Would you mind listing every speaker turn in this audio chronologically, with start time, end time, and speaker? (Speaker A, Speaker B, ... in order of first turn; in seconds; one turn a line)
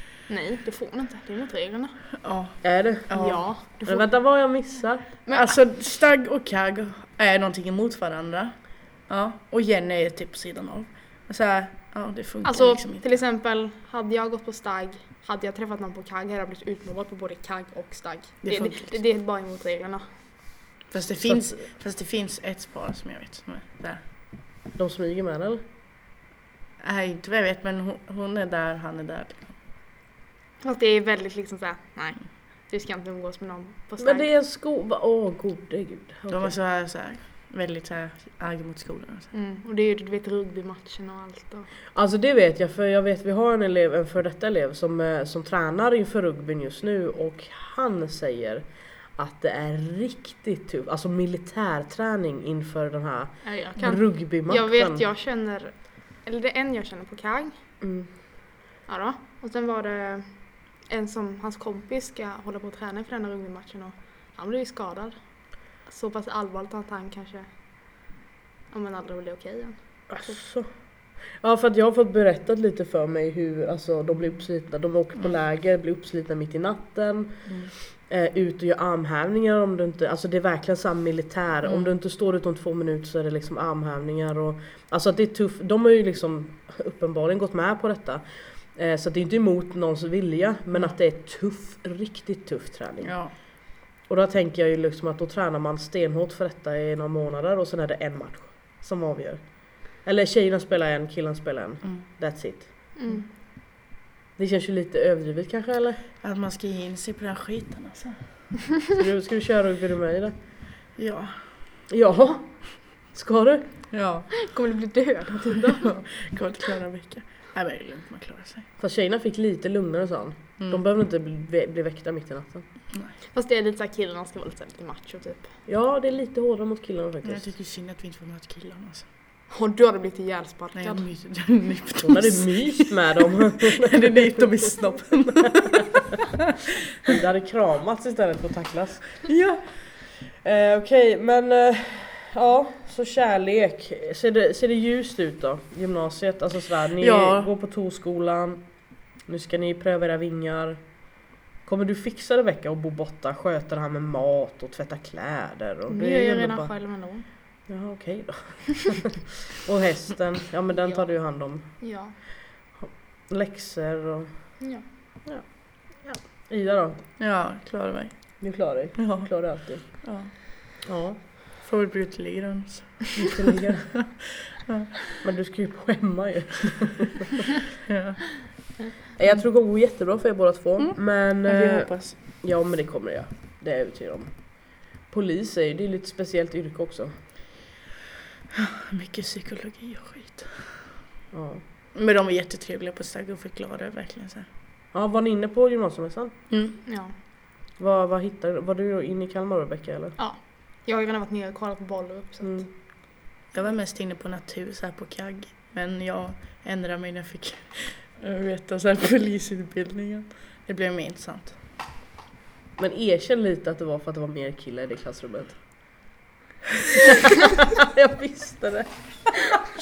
Speaker A: 0.3-2.1
Speaker B: 2.2-3.5
Speaker C: 2.6-5.1
Speaker A: 3.1-4.2
Speaker A: 5.2-5.6
Speaker B: 5.3-13.1
Speaker A: 12.4-20.1
Speaker B: 18.4-19.0
Speaker B: 20.9-24.0
Speaker C: 21.2-21.6
Speaker C: 24.7-25.6
Speaker B: 26.8-29.6
Speaker A: 30.6-34.3
Speaker C: 34.0-36.6
Speaker B: 36.3-39.3
Speaker A: 39.3-41.7
Speaker C: 41.9-55.0
Speaker A: 53.4-57.6
Speaker C: 57.8-58.1
Speaker A: 58.9-67.5
Speaker A: 68.7-70.4
Speaker C: 70.1-93.4
Speaker B: 77.5-77.7
Speaker B: 81.7-81.9
Speaker B: 93.0-93.3
Speaker C: 94.1-102.9
Speaker B: 101.8-102.1
Speaker A: 103.0-103.3
Speaker C: 104.4-106.0
Speaker B: 106.2-108.5
Speaker C: 109.0-110.3
Speaker B: 111.0-111.7
Speaker C: 111.9-113.6
Speaker B: 113.9-114.3
Speaker A: 114.3-115.9
Speaker B: 115.8-118.7
Speaker C: 118.8-122.7
Speaker B: 120.6-120.8
Speaker A: 123.3-125.5
Speaker C: 125.7-127.5
Speaker B: 127.2-129.1
Speaker A: 129.5-131.1
Speaker B: 130.7-133.2
Speaker C: 132.0-134.2
Speaker B: 133.7-136.2
Speaker C: 137.1-139.2
Speaker B: 139.3-139.8
Speaker C: 140.4-151.1
Speaker B: 147.0-147.5
Speaker C: 151.6-156.7
Speaker A: 155.9-157.3
Speaker C: 157.7-159.1
Speaker C: 159.6-164.7
Speaker A: 160.7-162.2
Speaker A: 164.6-164.8
Speaker C: 165.3-167.0
Speaker B: 167.2-170.3
Speaker C: 168.4-170.0
Speaker C: 170.9-171.2
Speaker B: 171.6-173.2
Speaker C: 173.2-174.2
Speaker C: 175.2-177.3
Speaker B: 177.8-178.8
Speaker C: 179.2-187.1
Speaker B: 180.8-182.2
Speaker B: 188.5-191.0
Speaker C: 191.3-191.6
Speaker B: 191.9-194.5
Speaker C: 194.9-196.3
Speaker B: 196.5-196.8
Speaker A: 196.8-197.2
Speaker C: 197.8-200.2
Speaker A: 200.2-202.7
Speaker C: 202.4-202.7
Speaker B: 203.5-211.6
Speaker C: 212.8-215.6
Speaker C: 217.8-219.4